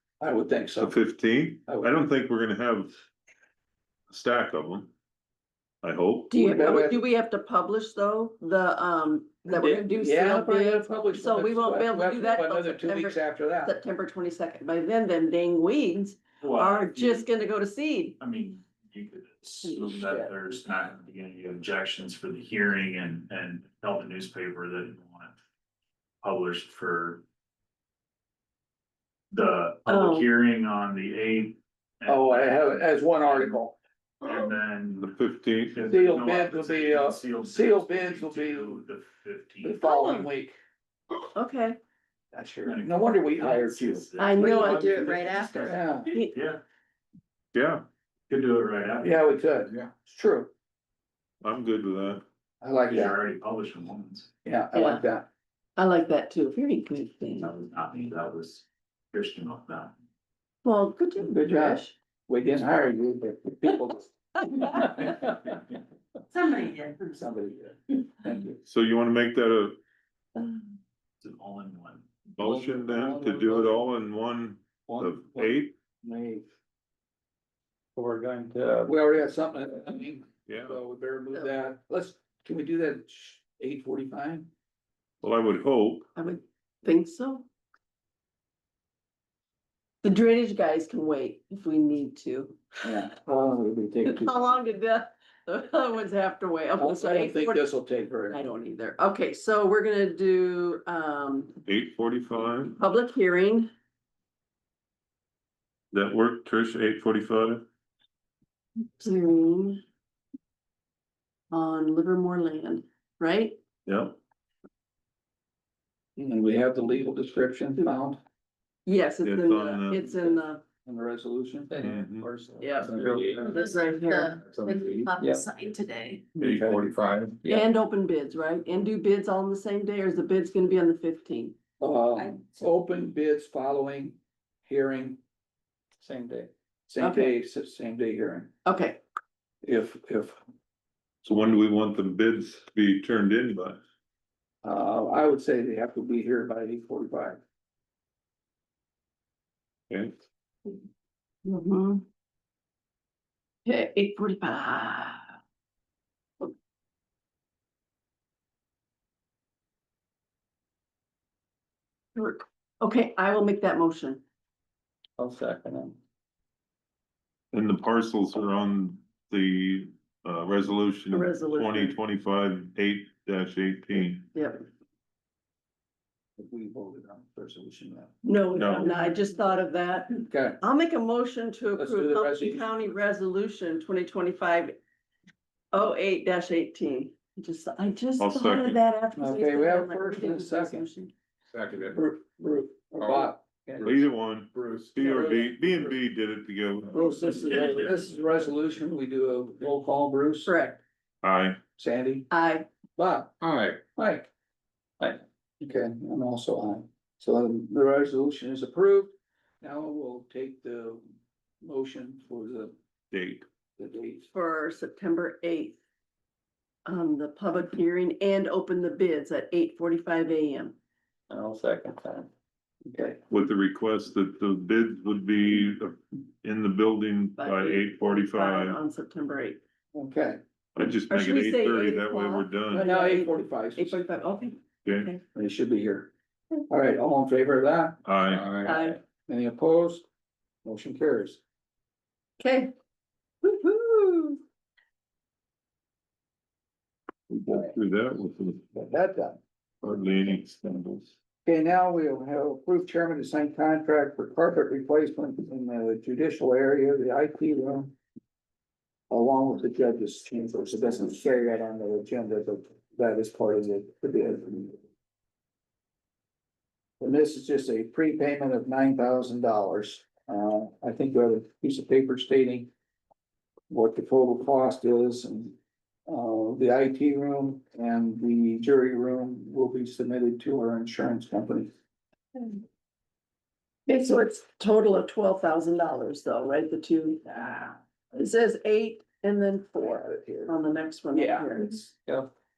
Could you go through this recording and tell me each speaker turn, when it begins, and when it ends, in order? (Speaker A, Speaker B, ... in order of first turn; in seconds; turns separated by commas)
Speaker A: 0.2-1.0, Speaker B: 0.8-2.9, Speaker A: 1.7-1.9, Speaker B: 4.1-4.9, Speaker B: 5.8-6.4, Speaker C: 6.3-18.2, Speaker A: 6.4-7.0, Speaker A: 9.5-13.8, Speaker D: 16.4-17.3, Speaker D: 18.2-25.4, Speaker C: 19.6-20.3, Speaker D: 26.2-27.2, Speaker D: 29.3-33.6, Speaker C: 29.9-30.3, Speaker A: 32.0-33.8, Speaker D: 34.2-35.2, Speaker B: 35.0-35.8, Speaker D: 35.7-39.8, Speaker A: 35.9-38.8, Speaker A: 39.6-40.6, Speaker C: 39.8-40.3, Speaker C: 41.3-41.8, Speaker A: 42.3-44.0, Speaker D: 42.6-45.5, Speaker C: 44.2-46.3, Speaker E: 44.4-45.8, Speaker A: 45.5-46.1, Speaker D: 46.3-46.6, Speaker B: 47.5-47.8, Speaker D: 48.3-49.1, Speaker A: 49.0-50.5, Speaker B: 51.4-52.2, Speaker A: 52.6-53.2, Speaker D: 52.9-54.3, Speaker A: 54.5-55.3, Speaker C: 54.7-55.0, Speaker C: 55.8-57.5, Speaker D: 57.4-59.9, Speaker C: 60.6-62.0, Speaker A: 61.2-65.6, Speaker C: 64.6-65.1, Speaker C: 66.3-66.9, Speaker E: 66.7-67.0, Speaker A: 67.1-68.6, Speaker B: 68.6-69.8, Speaker D: 71.2-72.0, Speaker B: 72.3-75.8, Speaker A: 72.4-73.8, Speaker A: 74.9-76.5, Speaker F: 78.0-78.9, Speaker A: 78.9-84.5, Speaker B: 80.5-80.8, Speaker B: 85.2-86.1, Speaker C: 86.1-87.5, Speaker C: 90.0-92.6, Speaker A: 92.8-94.4, Speaker C: 94.1-97.7, Speaker A: 96.8-98.5, Speaker C: 98.2-101.5, Speaker B: 101.6-102.8, Speaker C: 102.8-103.7, Speaker B: 105.9-107.6, Speaker C: 109.0-109.8, Speaker C: 111.5-113.6, Speaker B: 113.9-114.2, Speaker A: 116.2-118.2, Speaker C: 118.9-120.6, Speaker B: 119.2-120.3, Speaker A: 120.8-121.8, Speaker F: 121.7-123.6, Speaker B: 121.8-122.3, Speaker C: 122.6-124.4, Speaker A: 122.8-123.4, Speaker E: 123.5-126.3, Speaker F: 124.4-125.4, Speaker A: 126.3-127.0, Speaker F: 126.4-127.4, Speaker C: 127.5-131.5, Speaker A: 131.8-135.2, Speaker F: 136.0-136.5, Speaker A: 136.9-138.5, Speaker C: 137.0-137.3, Speaker C: 138.6-139.0, Speaker A: 139.6-140.4, Speaker B: 141.2-143.8, Speaker A: 144.6-147.4, Speaker B: 149.9-150.2, Speaker C: 151.4-152.0, Speaker C: 153.6-155.3, Speaker C: 162.1-164.2, Speaker F: 165.2-165.9, Speaker B: 167.5-174.3, Speaker C: 171.1-172.0, Speaker C: 174.3-174.6, Speaker A: 176.4-178.1, Speaker C: 178.2-184.7, Speaker B: 178.5-178.9, Speaker A: 180.2-180.6, Speaker A: 181.8-182.7, Speaker C: 185.7-191.1, Speaker B: 188.2-188.8, Speaker A: 189.2-190.8, Speaker F: 191.5-192.0, Speaker A: 191.9-193.9, Speaker F: 193.0-195.4, Speaker B: 193.8-197.5, Speaker A: 195.0-195.9, Speaker A: 196.9-200.5, Speaker C: 200.4-200.8, Speaker B: 201.2-201.6, Speaker A: 201.8-202.3, Speaker C: 202.3-202.7, Speaker A: 202.9-203.3, Speaker F: 203.4-203.8, Speaker A: 203.9-204.3, Speaker A: 205.0-211.0, Speaker A: 211.6-212.7, Speaker B: 213.1-213.4, Speaker A: 213.8-214.3, Speaker C: 214.3-215.8, Speaker C: 216.8-220.8, Speaker F: 221.3-222.3, Speaker A: 222.9-223.2, Speaker B: 223.3-228.8, Speaker C: 227.4-229.6, Speaker A: 229.9-230.4, Speaker B: 230.8-232.9, Speaker C: 231.1-235.2, Speaker A: 232.8-234.0, Speaker B: 234.8-235.1, Speaker A: 235.3-236.1, Speaker A: 236.7-238.0, Speaker B: 238.0-238.5, Speaker F: 238.3-238.8, Speaker C: 238.6-239.0, Speaker A: 239.3-240.1, Speaker A: 240.6-241.4, Speaker C: 242.4-242.7, Speaker C: 243.4-244.4, Speaker B: 247.3-248.6, Speaker A: 248.7-249.4, Speaker B: 249.8-251.1, Speaker A: 251.4-257.9, Speaker A: 259.1-264.8, Speaker A: 267.0-272.7, Speaker A: 273.7-275.6, Speaker A: 276.1-281.7, Speaker C: 283.9-291.8, Speaker A: 289.8-290.5, Speaker A: 291.1-292.3